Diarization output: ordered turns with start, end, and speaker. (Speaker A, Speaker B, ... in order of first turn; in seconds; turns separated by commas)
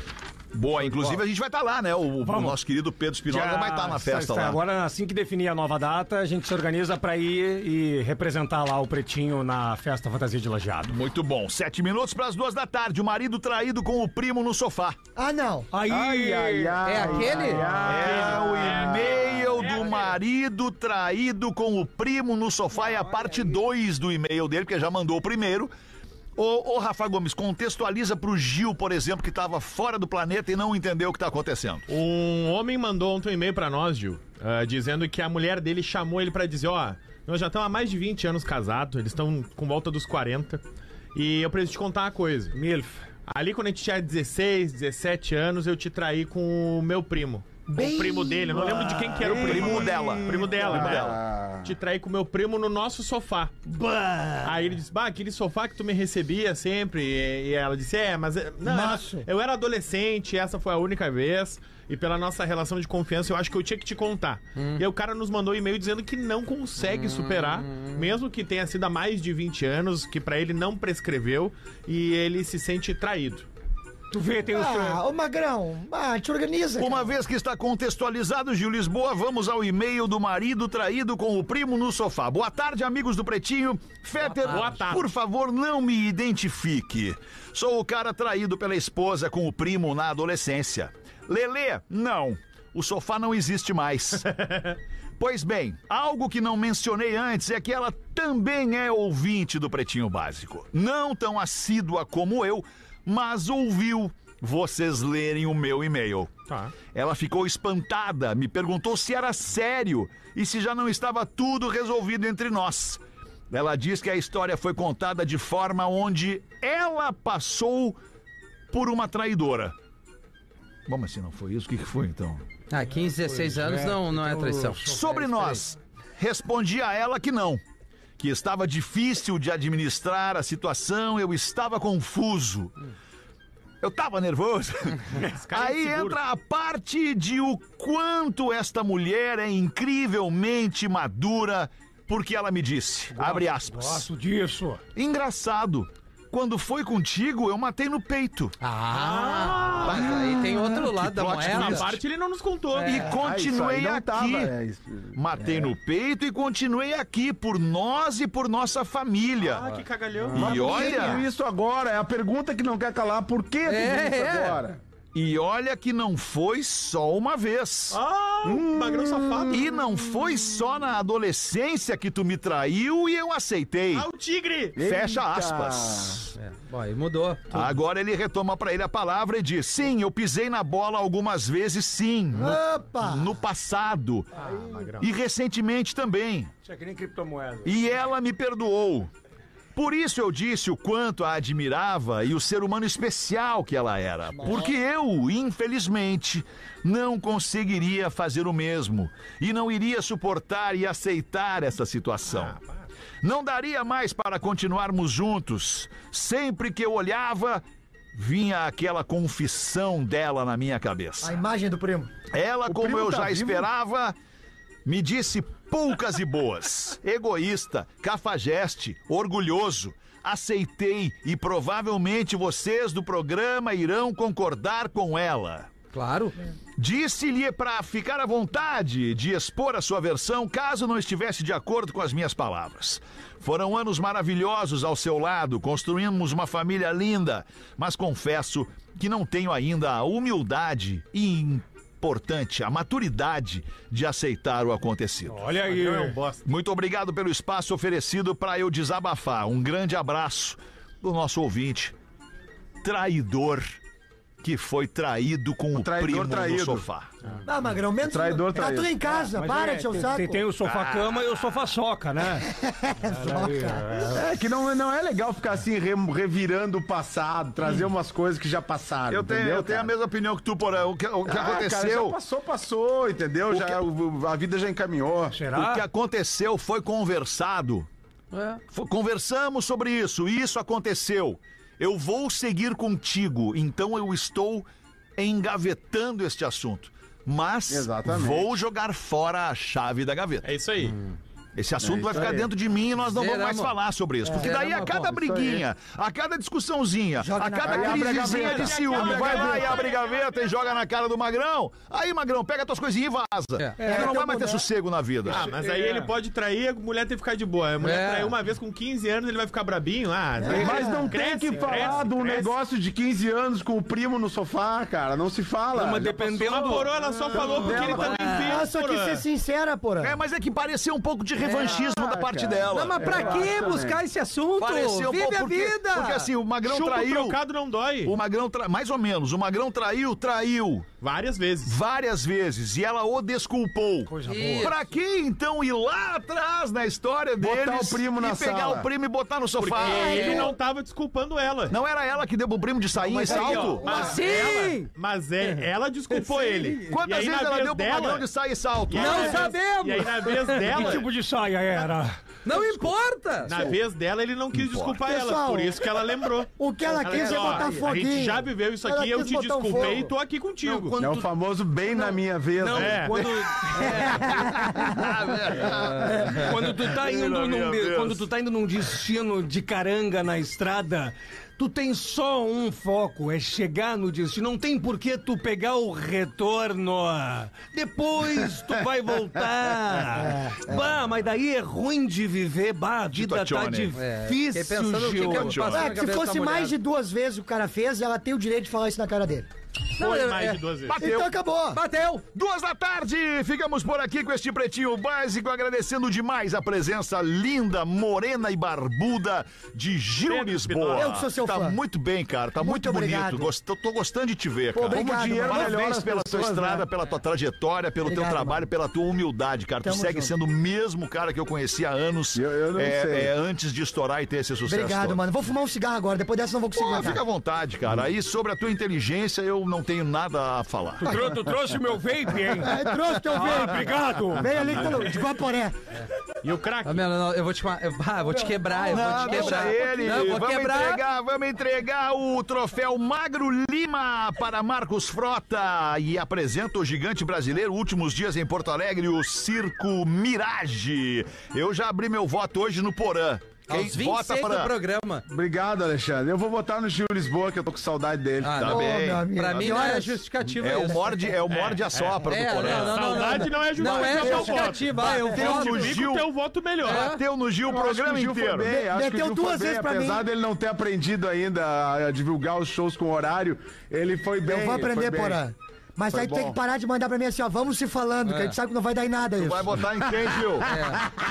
Speaker A: 0.5-4.6, Speaker B: 0.8-1.2, Speaker B: 2.2-2.6, Speaker B: 3.2-11.0, Speaker A: 10.9-15.0, Speaker C: 15.2-15.7, Speaker B: 15.7-17.9, Speaker D: 15.8-19.8, Speaker E: 16.8-17.7, Speaker F: 17.9-20.2, Speaker A: 17.9-25.7, Speaker A: 26.4-31.9, Speaker F: 31.9-40.6, Speaker F: 41.1-42.6, Speaker B: 42.5-43.0, Speaker F: 43.3-53.7, Speaker B: 47.7-50.7, Speaker C: 48.0-48.3, Speaker D: 48.8-51.7, Speaker A: 49.3-51.2, Speaker B: 53.7-54.6, Speaker F: 54.4-73.5, Speaker C: 58.6-59.2, Speaker E: 64.6-64.8, Speaker E: 66.9-68.0, Speaker B: 74.1-75.0, Speaker C: 74.5-77.2, Speaker A: 76.8-94.3, Speaker E: 84.2-84.8, Speaker F: 84.5-85.1, Speaker F: 94.4-94.7, Speaker A: 95.2-106.3, Speaker F: 106.5-106.7, Speaker A: 106.8-118.0, Speaker A: 118.7-119.7, Speaker A: 120.9-122.4, Speaker E: 122.7-125.6, Speaker B: 122.9-125.5, Speaker A: 124.8-127.6, Speaker A: 128.2-132.7, Speaker A: 133.8-144.1, Speaker F: 135.3-136.2, Speaker B: 143.1-144.8, Speaker A: 144.9-148.6, Speaker E: 148.6-152.0, Speaker F: 148.9-150.1, Speaker A: 149.8-152.0, Speaker F: 151.4-153.1, Speaker A: 152.8-154.5, Speaker D: 152.9-155.7, Speaker A: 155.2-159.6, Speaker F: 159.4-160.9, Speaker A: 160.3-161.3, Speaker D: 160.3-164.8, Speaker B: 160.5-161.0, Speaker E: 163.7-164.6, Speaker A: 165.1-168.0, Speaker F: 167.9-169.7, Speaker D: 168.4-169.8, Speaker A: 169.5-174.1, Speaker F: 173.9-174.8, Speaker D: 174.8-176.3, Speaker A: 174.8-176.3, Speaker E: 176.4-177.7, Speaker A: 177.5-184.4, Speaker C: 182.3-183.4, Speaker F: 184.4-185.1, Speaker C: 184.4-184.9, Speaker A: 185.0-186.5, Speaker B: 186.6-187.8, Speaker A: 187.7-189.1, Speaker A: 189.8-202.6, Speaker C: 194.4-194.7, Speaker F: 202.3-202.8, Speaker A: 203.2-211.4, Speaker C: 211.2-212.2, Speaker A: 212.3-214.2, Speaker D: 212.7-213.7, Speaker A: 214.8-225.7, Speaker E: 225.9-226.4, Speaker A: 226.8-245.5, Speaker B: 245.3-246.3, Speaker F: 245.6-246.4, Speaker A: 246.4-251.9, Speaker A: 252.8-253.8, Speaker A: 254.4-257.1, Speaker D: 255.7-256.9, Speaker C: 257.4-260.5, Speaker D: 258.0-259.0, Speaker B: 259.0-262.5, Speaker A: 260.6-261.4, Speaker C: 262.4-263.9, Speaker B: 263.1-264.2, Speaker D: 264.1-269.9, Speaker A: 269.1-272.2, Speaker D: 271.3-275.4, Speaker A: 273.5-273.8, Speaker B: 275.3-275.9, Speaker A: 275.5-277.9, Speaker E: 278.3-278.6, Speaker A: 278.7-290.5, Speaker D: 287.7-288.5, Speaker F: 290.4-291.0, Speaker A: 291.6-305.5, Speaker D: 291.8-292.5, Speaker E: 293.1-293.8, Speaker C: 294.2-294.5, Speaker E: 294.3-295.1, Speaker D: 295.0-295.7, Speaker C: 297.2-298.8, Speaker D: 297.6-299.9, Speaker F: 298.3-300.6, Speaker C: 303.8-304.7, Speaker B: 303.8-304.1, Speaker F: 305.3-312.5, Speaker B: 305.3-306.1, Speaker E: 307.8-308.4, Speaker C: 310.4-311.1, Speaker D: 310.5-316.9, Speaker B: 310.5-311.0, Speaker B: 311.6-312.1, Speaker B: 315.7-318.5, Speaker F: 316.2-319.2, Speaker D: 317.4-318.2, Speaker C: 317.7-320.2, Speaker A: 320.0-323.4, Speaker E: 321.4-321.8, Speaker D: 321.6-324.0, Speaker E: 322.7-326.3, Speaker B: 323.0-323.6, Speaker A: 324.6-327.4, Speaker F: 326.7-328.2, Speaker A: 328.0-330.9, Speaker F: 331.0-331.8, Speaker A: 331.6-340.4, Speaker B: 334.1-334.8, Speaker E: 334.3-334.8, Speaker D: 337.4-338.9, Speaker F: 339.6-341.8, Speaker E: 339.8-340.5, Speaker C: 339.9-340.4, Speaker A: 341.7-343.9, Speaker B: 343.1-343.9, Speaker C: 343.2-344.1, Speaker F: 343.8-348.3, Speaker E: 343.9-344.9, Speaker E: 345.4-346.6, Speaker A: 346.9-349.4, Speaker F: 348.9-351.1, Speaker E: 349.0-351.0, Speaker B: 350.7-352.2, Speaker E: 352.4-353.6, Speaker F: 353.4-361.0, Speaker A: 354.6-355.0, Speaker C: 355.0-355.8, Speaker C: 356.6-360.1, Speaker B: 360.6-361.3, Speaker D: 361.0-363.2, Speaker B: 361.9-364.5, Speaker F: 362.7-363.1, Speaker A: 363.2-368.2, Speaker C: 363.8-365.1, Speaker B: 365.6-385.6, Speaker C: 380.2-380.8, Speaker A: 383.1-383.9, Speaker E: 383.9-386.8, Speaker A: 385.2-385.9, Speaker C: 385.6-389.5, Speaker E: 390.0-390.7, Speaker F: 390.0-391.0, Speaker C: 390.9-391.8, Speaker A: 391.0-391.4, Speaker E: 391.7-392.2, Speaker A: 392.4-415.2, Speaker F: 400.2-401.2, Speaker C: 400.9-401.8, Speaker C: 402.6-403.5, Speaker C: 404.7-405.9, Speaker D: 404.9-406.9, Speaker C: 408.0-408.7, Speaker C: 409.8-410.3, Speaker D: 412.4-413.3, Speaker C: 414.7-417.2, Speaker A: 416.7-421.1, Speaker B: 421.0-422.8, Speaker C: 422.5-425.8, Speaker B: 423.3-424.7, Speaker F: 426.4-427.0, Speaker E: 426.8-431.0, Speaker C: 428.2-430.4, Speaker A: 428.9-444.8, Speaker E: 443.7-445.2, Speaker D: 445.3-448.9, Speaker E: 448.4-451.1, Speaker A: 448.6-450.0, Speaker C: 448.6-450.2, Speaker A: 450.6-453.4, Speaker F: 451.5-457.1, Speaker E: 452.3-456.0, Speaker C: 453.3-455.6, Speaker A: 455.0-456.3, Speaker A: 456.8-458.7, Speaker E: 456.8-457.2, Speaker D: 457.7-465.4, Speaker C: 458.7-460.3, Speaker C: 464.4-470.4, Speaker D: 466.1-466.6, Speaker E: 468.2-468.6, Speaker A: 469.4-470.8, Speaker E: 470.6-471.0